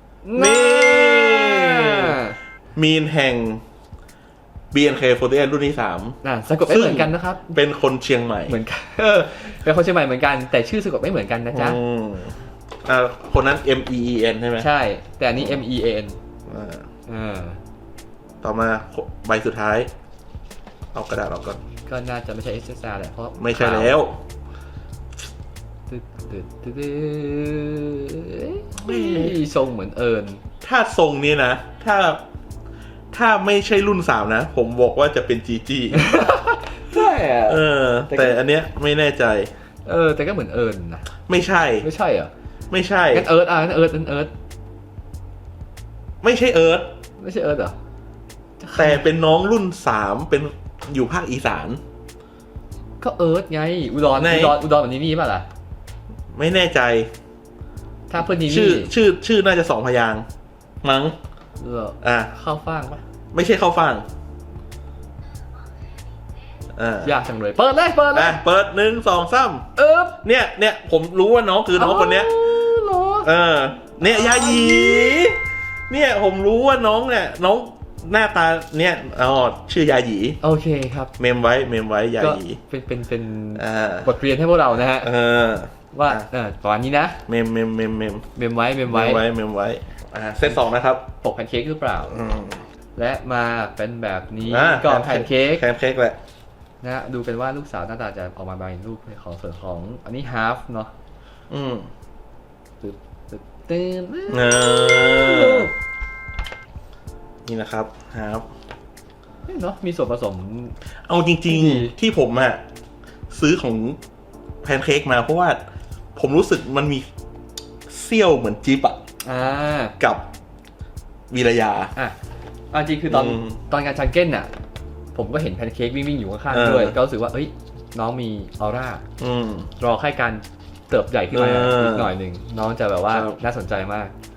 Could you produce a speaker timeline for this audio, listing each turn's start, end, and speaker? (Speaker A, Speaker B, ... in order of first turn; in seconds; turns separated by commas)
Speaker A: 0.2-2.4, Speaker B: 0.3-2.2, Speaker B: 2.8-3.6, Speaker B: 4.7-8.6, Speaker A: 6.2-7.6, Speaker A: 8.5-11.8, Speaker B: 11.5-14.7, Speaker A: 14.6-16.2, Speaker B: 16.5-16.9, Speaker A: 17.1-17.6, Speaker B: 18.4-19.9, Speaker B: 20.9-21.6, Speaker A: 21.9-24.0, Speaker B: 23.4-24.2, Speaker A: 25.9-30.4, Speaker B: 28.8-29.4, Speaker B: 30.6-32.2, Speaker B: 33.1-36.2, Speaker A: 35.9-38.4, Speaker B: 37.5-39.5, Speaker A: 39.9-41.1, Speaker B: 41.3-41.9, Speaker A: 41.8-42.3, Speaker B: 42.7-43.3, Speaker A: 43.1-44.3, Speaker B: 46.2-46.9, Speaker A: 47.2-47.8, Speaker A: 48.6-49.0, Speaker B: 48.8-51.8, Speaker A: 53.0-55.5, Speaker B: 54.1-54.6, Speaker B: 56.3-57.1, Speaker A: 58.1-58.9, Speaker B: 58.4-60.3, Speaker B: 60.8-61.2, Speaker A: 61.6-63.0, Speaker B: 62.0-62.3, Speaker B: 63.3-64.1, Speaker B: 66.7-67.2, Speaker A: 67.0-68.4, Speaker B: 68.1-69.7, Speaker A: 69.8-70.2, Speaker B: 70.2-72.4, Speaker A: 71.8-73.3, Speaker B: 73.2-80.4, Speaker A: 74.0-75.2, Speaker A: 80.4-81.1, Speaker B: 81.2-82.6, Speaker A: 82.2-85.1, Speaker B: 83.6-84.1, Speaker B: 85.0-86.3, Speaker A: 85.9-87.2, Speaker B: 87.3-88.3, Speaker A: 88.4-89.2, Speaker B: 88.9-91.1, Speaker A: 91.2-92.2, Speaker B: 92.1-92.6, Speaker A: 93.0-95.7, Speaker B: 94.4-96.2, Speaker A: 96.8-100.9, Speaker B: 101.5-101.9, Speaker A: 102.8-105.7, Speaker B: 104.3-105.7, Speaker B: 107.5-108.5, Speaker A: 109.5-110.8, Speaker B: 111.1-112.6, Speaker A: 111.5-111.9, Speaker B: 113.3-114.0, Speaker B: 114.6-115.6, Speaker B: 116.2-117.1, Speaker B: 117.9-119.0, Speaker A: 119.2-120.0, Speaker B: 120.0-120.3, Speaker B: 121.3-121.9, Speaker A: 122.7-124.5, Speaker B: 123.1-123.6, Speaker A: 125.2-129.1, Speaker B: 126.5-127.0, Speaker B: 129.2-129.7, Speaker A: 129.8-134.1, Speaker B: 131.3-132.1, Speaker B: 133.1-133.4